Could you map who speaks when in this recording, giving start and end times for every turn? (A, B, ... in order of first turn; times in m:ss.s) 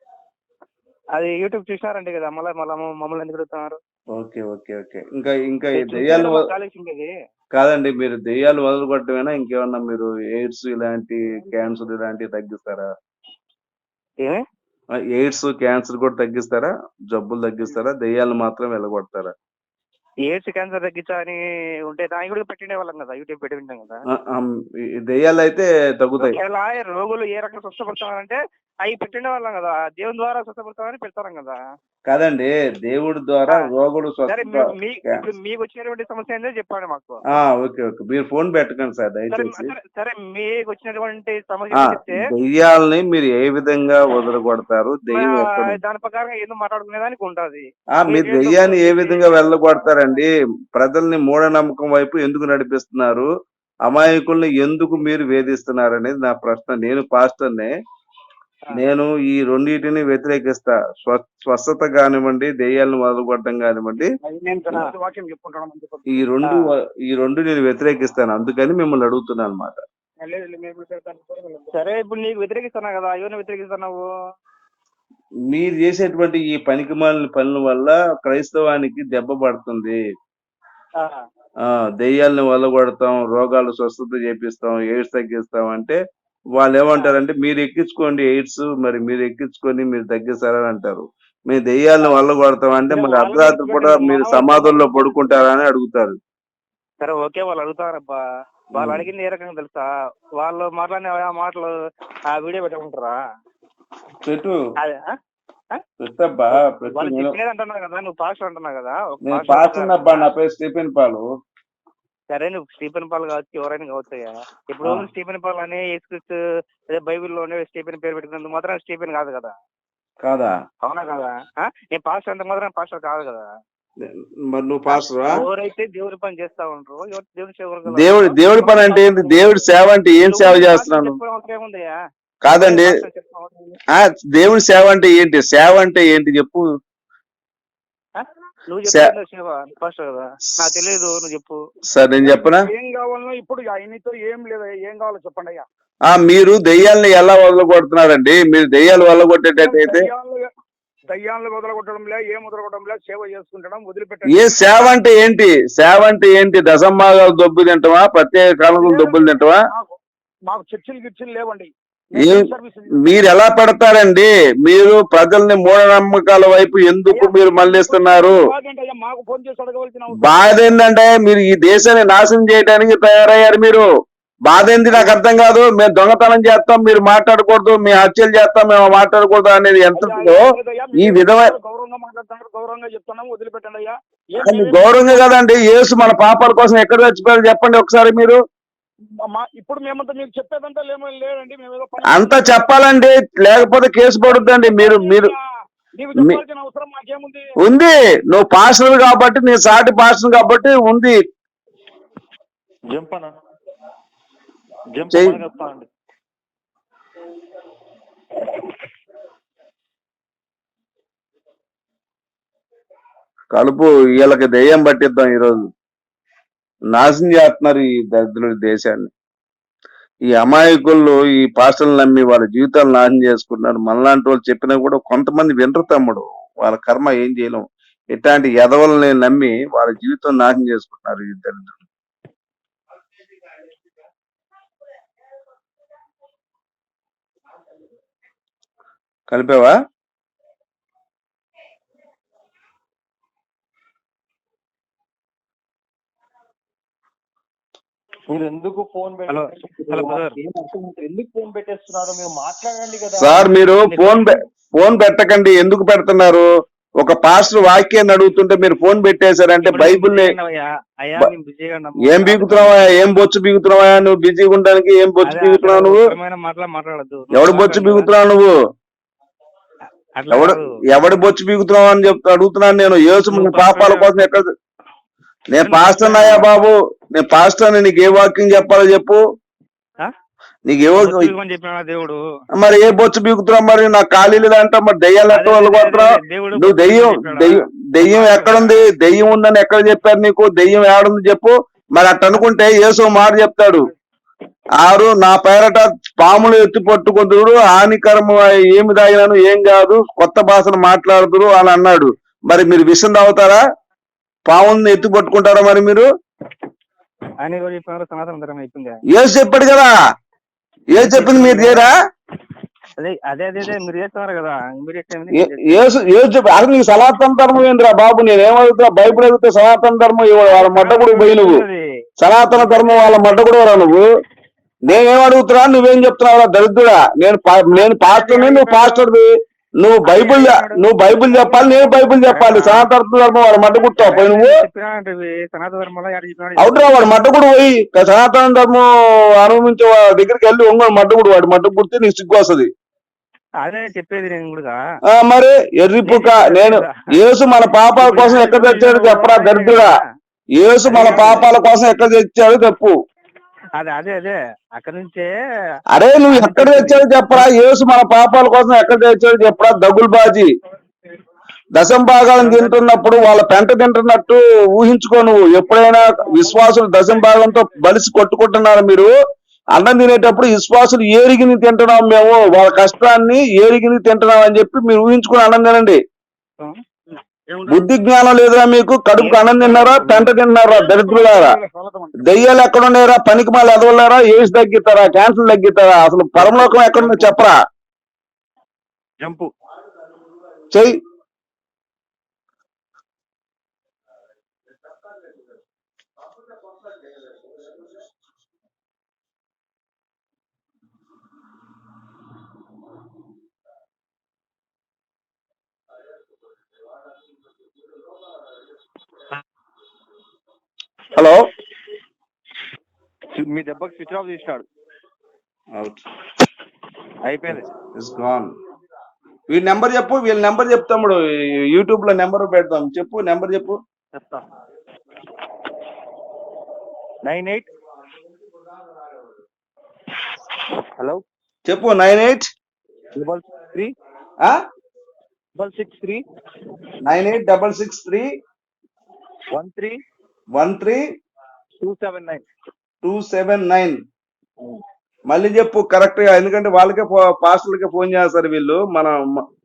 0:01.2-0:03.8 A
0:04.1-0:06.4 B
0:05.8-0:07.1 A
0:07.5-0:12.9 B
0:15.0-0:19.3 B
0:20.3-0:24.0 A
0:24.1-0:26.4 B
0:26.2-0:31.6 A
0:32.1-0:35.2 B
0:34.3-0:37.4 A
0:37.3-0:39.7 B
0:39.3-0:42.2 A
0:41.7-0:45.8 B
0:45.1-0:50.2 A
0:48.0-0:53.3 B
0:53.8-0:57.7 B
0:58.7-1:04.1 B
1:04.2-1:06.2 C
1:06.1-1:09.8 B
1:10.2-1:11.7 C
1:11.7-1:14.0 A
1:15.5-1:20.0 B
1:21.7-1:26.0 B
1:26.6-1:36.2 B
1:32.9-1:35.0 A
1:37.0-1:38.2 A
1:38.7-1:39.1 B
1:38.7-1:39.8 A
1:40.4-1:41.7 A
1:42.3-1:43.2 A
1:44.2-1:44.6 B
1:46.0-1:47.3 B
1:46.9-1:50.3 A
1:49.2-1:51.2 B
1:52.3-1:56.4 A
1:56.9-1:59.5 A
2:00.2-2:00.6 B
2:00.8-2:03.4 A
2:04.0-2:05.4 B
2:04.9-2:09.7 A
2:07.9-2:11.2 B
2:10.2-2:11.9 A
2:12.4-2:13.0 B
2:12.5-2:13.8 A
2:13.9-2:16.6 B
2:18.2-2:21.6 A
2:18.8-2:19.1 B
2:21.9-2:22.7 B
2:22.2-2:25.6 C
2:26.1-2:30.1 B
2:29.6-2:30.5 C
2:31.1-2:34.5 C
2:34.3-2:39.6 B
2:38.8-2:39.9 C
2:40.5-2:43.3 C
2:42.2-2:42.5 B
2:43.0-2:48.4 B
2:47.1-2:50.5 C
2:50.1-2:53.8 B
2:54.4-3:01.5 B
3:00.0-3:05.3 C
3:04.4-3:08.4 B
3:09.3-3:12.6 C
3:12.1-3:15.3 B
3:14.3-3:15.4 C
3:16.0-3:17.4 C
3:17.6-3:21.2 B
3:22.9-3:23.4 D
3:24.9-3:25.9 D
3:25.1-3:25.4 B
3:33.5-3:35.6 B
3:36.9-3:39.1 B
3:40.3-3:51.9 B
3:59.3-3:59.7 B
4:08.3-4:13.5 D
4:09.3-4:10.3 A
4:13.2-4:16.5 B
4:13.8-4:14.3 A
4:17.0-4:20.3 B
4:19.6-4:22.8 A
4:22.0-4:26.0 B
4:25.3-4:28.1 A
4:27.3-4:28.5 B
4:30.2-4:30.6 A
4:30.3-4:34.5 B
4:33.3-4:34.3 A
4:35.5-4:39.2 B
4:35.6-4:36.5 A
4:40.6-4:41.3 B
4:41.0-4:42.2 A
4:42.6-4:53.9 B
4:45.3-4:48.9 A
4:54.8-5:03.6 B
5:04.5-5:06.1 B
5:07.4-5:09.0 A
5:09.1-5:09.9 B
5:10.9-5:11.9 B
5:11.0-5:11.9 A
5:13.0-5:15.8 A
5:15.3-5:21.6 B
5:20.5-5:21.8 A
5:22.2-5:24.0 B
5:22.5-5:23.2 A
5:24.8-5:29.3 B
5:27.8-5:29.0 A
5:29.8-5:34.6 B
5:30.0-5:32.9 A
5:33.8-5:37.0 A
5:36.6-5:42.7 B
5:43.6-5:44.8 A
5:45.1-5:49.9 B
5:46.0-5:46.9 A
5:48.0-5:49.9 A
5:50.6-5:52.9 B
5:50.8-5:51.5 A
5:53.8-5:55.3 A
5:55.9-6:00.5 B
5:56.3-5:57.4 A
6:01.7-6:09.1 B
6:02.4-6:02.8 A
6:09.7-6:16.0 B
6:17.7-6:21.6 B
6:19.2-6:20.4 A
6:20.7-6:22.4 C
6:22.2-6:27.6 B
6:26.9-6:27.3 D
6:29.2-6:29.5 D
6:51.1-6:51.4 B
6:53.3-6:54.6 D
6:55.8-6:56.0 B
6:57.2-6:57.7 D
6:57.9-6:58.5 B
6:59.5-7:03.8 B
7:04.1-7:04.4 D
7:07.2-7:07.7 D
7:10.8-7:11.2 D
7:11.6-7:12.5 B
7:13.1-7:13.9 D
7:15.5-7:16.2 D
7:17.0-7:18.2 B
7:19.5-7:20.0 D
7:20.5-7:21.0 B
7:21.8-7:22.4 D
7:23.0-7:24.0 B
7:25.3-7:29.4 B